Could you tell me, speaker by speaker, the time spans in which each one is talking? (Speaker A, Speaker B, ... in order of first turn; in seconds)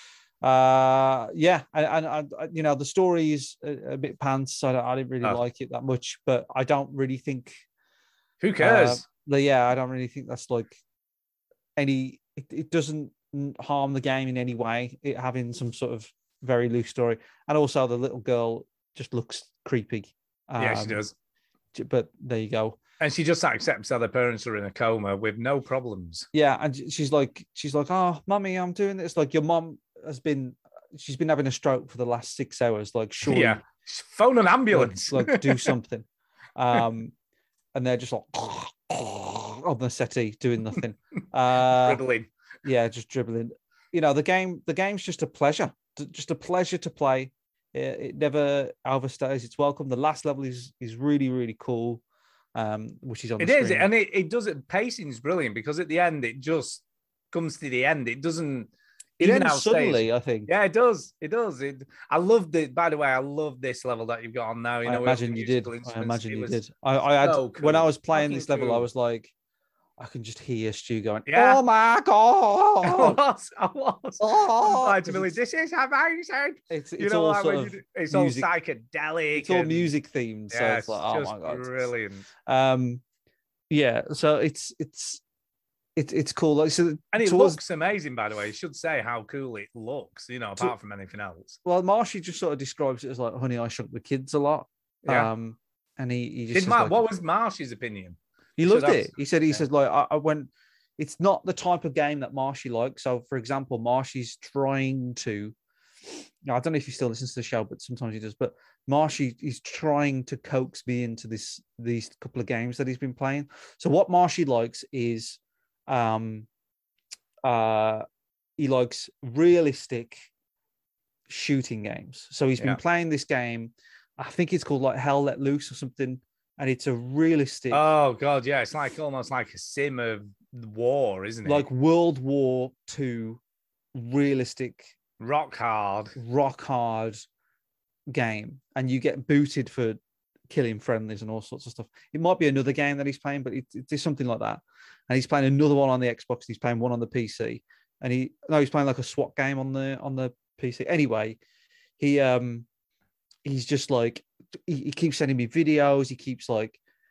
Speaker A: 0.4-7.6, 8.6-10.8, 11.8-21.0, 21.7-22.8, 26.3-33.6, 34.7-37.1, 37.8-42.0, 42.6-52.0, 52.5-53.9, 59.2-60.5, 64.8-69.3, 70.0-73.2, 74.2-75.4, 76.7-78.5, 79.3-81.9, 82.5-83.0, 83.7-85.2, 86.0-87.6, 91.7-97.0, 98.6-105.5, 106.5-116.5, 117.4-118.0, 118.6-120.3, 121.3-127.9, 131.4-133.4, 133.9-134.9, 136.2-137.2, 138.1-151.4, 152.0-152.7, 153.4-156.8
Speaker B: 8.4-9.1, 20.6-21.1, 23.0-26.3, 33.3-35.7, 41.6-42.3, 53.4-66.6, 67.2-68.9, 71.3-71.6, 72.8-79.9, 80.5-82.3, 87.1-91.6, 95.0-95.3, 96.5-99.6, 127.7-131.7, 135.2-136.2